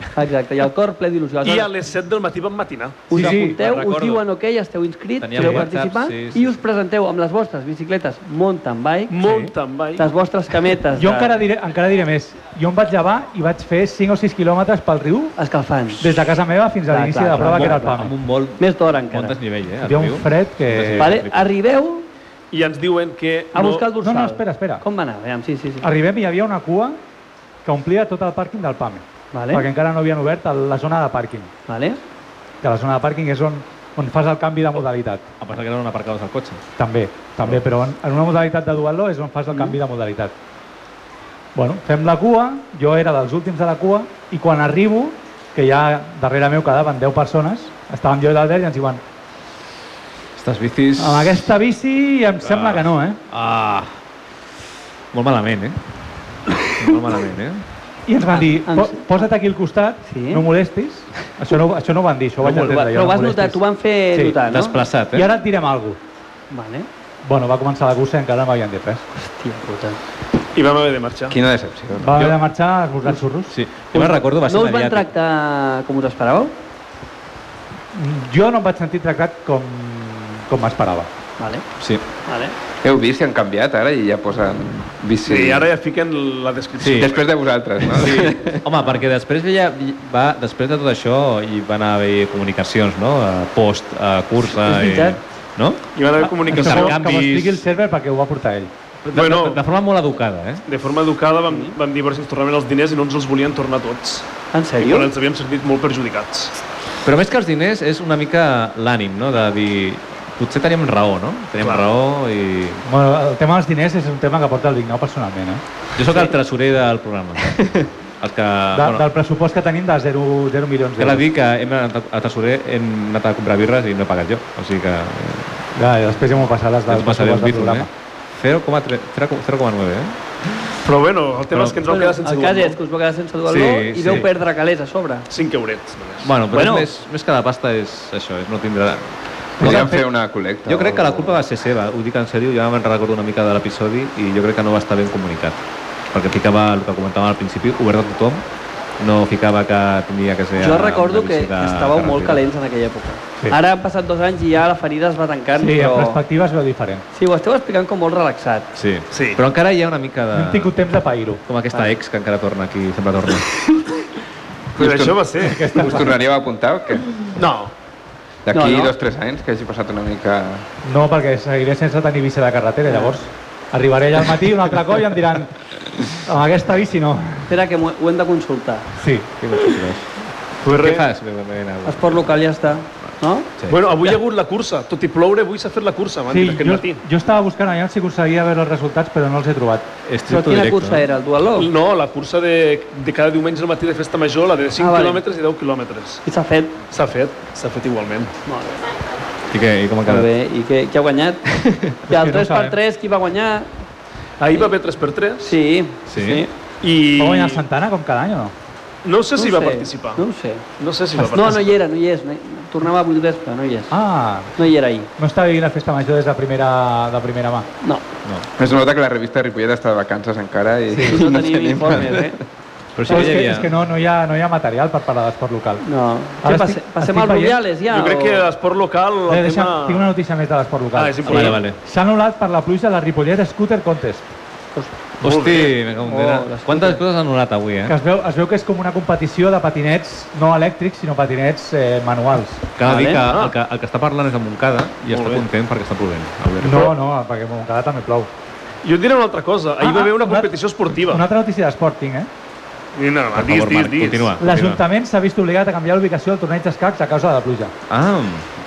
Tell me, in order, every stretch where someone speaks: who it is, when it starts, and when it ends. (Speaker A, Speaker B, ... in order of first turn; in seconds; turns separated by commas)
Speaker A: 0.1-1.7, Speaker B: 1.4-3.1, Speaker A: 3.1-9.2, Speaker C: 3.1-3.6, Speaker D: 3.1-4.2, Speaker D: 5.2-6.6, Speaker C: 5.4-5.7, Speaker B: 9.1-10.1, Speaker A: 10.0-11.4, Speaker C: 10.9-15.3, Speaker A: 15.4-16.1, Speaker C: 16.0-18.1, Speaker A: 16.9-19.4, Speaker D: 17.4-21.5, Speaker C: 19.8-21.2, Speaker A: 21.0-22.1, Speaker B: 22.5-23.9, Speaker A: 23.5-25.9, Speaker C: 24.0-24.8, Speaker C: 25.8-27.0, Speaker C: 27.6-31.5, Speaker A: 29.3-29.7, Speaker A: 31.7-32.0, Speaker C: 32.6-35.3, Speaker D: 35.4-36.6, Speaker C: 36.8-40.3, Speaker A: 39.5-39.8, Speaker C: 41.5-49.0, Speaker D: 50.4-51.5, Speaker C: 51.0-53.2, Speaker D: 52.5-53.9, Speaker D: 55.1-55.8, Speaker D: 56.8-57.6, Speaker C: 58.1-63.6, Speaker A: 58.3-59.3, Speaker A: 60.1-60.5, Speaker A: 62.4-64.8, Speaker C: 64.1-64.4, Speaker D: 64.5-65.3, Speaker C: 65.1-66.0, Speaker A: 66.5-66.9, Speaker C: 67.2-69.1, Speaker A: 69.2-70.0, Speaker B: 70.5-71.4, Speaker E: 71.3-72.3, Speaker C: 72.0-73.5, Speaker D: 73.5-75.1, Speaker A: 73.9-76.5, Speaker C: 77.9-81.1, Speaker A: 81.4-81.6, Speaker A: 82.3-82.5, Speaker E: 82.8-85.7, Speaker B: 85.3-87.2, Speaker D: 86.8-87.1, Speaker E: 86.9-88.6, Speaker D: 87.8-95.8, Speaker A: 94.5-95.2, Speaker B: 96.0-97.0, Speaker C: 96.4-98.7, Speaker D: 96.5-97.6, Speaker D: 99.1-100.6, Speaker B: 99.1-99.6, Speaker B: 100.7-104.3, Speaker A: 101.5-101.8, Speaker A: 104.5-105.1, Speaker B: 104.8-106.5, Speaker D: 107.0-112.8, Speaker B: 111.6-111.8, Speaker C: 112.8-115.6, Speaker D: 116.0-119.0, Speaker C: 118.7-121.3, Speaker D: 121.0-125.6, Speaker C: 125.8-127.9, Speaker D: 126.9-130.2, Speaker B: 130.8-132.8, Speaker D: 131.5-131.8, Speaker A: 131.9-135.3, Speaker D: 133.5-134.3, Speaker B: 135.3-136.3, Speaker D: 136.2-139.1, Speaker A: 136.5-136.9, Speaker D: 139.6-140.1, Speaker C: 139.6-139.9, Speaker E: 139.6-141.4, Speaker D: 140.7-145.6, Speaker D: 146.1-148.4, Speaker D: 149.0-152.4, Speaker A: 150.6-156.2, Speaker C: 155.6-157.1, Speaker A: 157.1-158.7, Speaker D: 158.8-160.7, Speaker B: 159.1-159.4, Speaker C: 160.3-161.4, Speaker D: 161.5-163.5, Speaker E: 164.8-167.3, Speaker B: 164.8-165.7, Speaker C: 165.4-166.1, Speaker B: 167.4-167.7, Speaker E: 168.5-170.7, Speaker A: 168.5-168.9, Speaker C: 170.8-175.6, Speaker A: 172.9-173.2, Speaker C: 176.1-177.5, Speaker A: 177.5-178.9, Speaker C: 179.0-179.3, Speaker D: 179.4-182.3, Speaker B: 180.6-181.0, Speaker A: 181.9-183.5, Speaker B: 183.7-187.0, Speaker C: 186.3-189.9, Speaker D: 190.1-191.0, Speaker A: 190.3-191.7, Speaker B: 191.6-196.2, Speaker A: 194.8-195.2, Speaker A: 196.2-196.8, Speaker B: 196.9-198.3, Speaker A: 198.5-198.8, Speaker D: 199.5-200.3, Speaker A: 200.1-201.4, Speaker D: 201.6-201.8, Speaker C: 202.1-202.8, Speaker A: 202.1-203.7, Speaker B: 204.4-205.6, Speaker A: 205.4-206.5, Speaker D: 206.1-206.4, Speaker B: 206.8-207.6, Speaker C: 207.2-208.5, Speaker B: 209.0-210.2, Speaker A: 209.4-210.7, Speaker B: 210.8-211.8, Speaker A: 211.2-213.9, Speaker C: 213.9-214.5, Speaker A: 214.6-215.1, Speaker C: 215.2-217.7, Speaker E: 218.6-222.3, Speaker C: 220.9-221.2, Speaker A: 221.1-222.4, Speaker D: 223.0-223.7, Speaker A: 223.1-223.3, Speaker C: 223.1-225.8, Speaker A: 225.8-228.5, Speaker C: 226.4-227.6, Speaker B: 227.9-230.1, Speaker C: 229.3-234.3, Speaker B: 230.9-231.6, Speaker D: 231.3-231.8, Speaker A: 231.3-231.6, Speaker D: 235.2-238.0, Speaker B: 235.2-235.7, Speaker A: 236.0-237.0, Speaker C: 237.9-242.7, Speaker D: 242.8-246.9, Speaker A: 242.8-243.2, Speaker B: 243.3-243.6, Speaker B: 245.1-245.4, Speaker C: 246.6-248.3, Speaker B: 248.8-251.2, Speaker C: 249.8-250.5, Speaker C: 251.0-252.3, Speaker B: 252.9-254.4, Speaker D: 253.3-254.8, Speaker C: 254.4-257.7, Speaker D: 257.9-258.4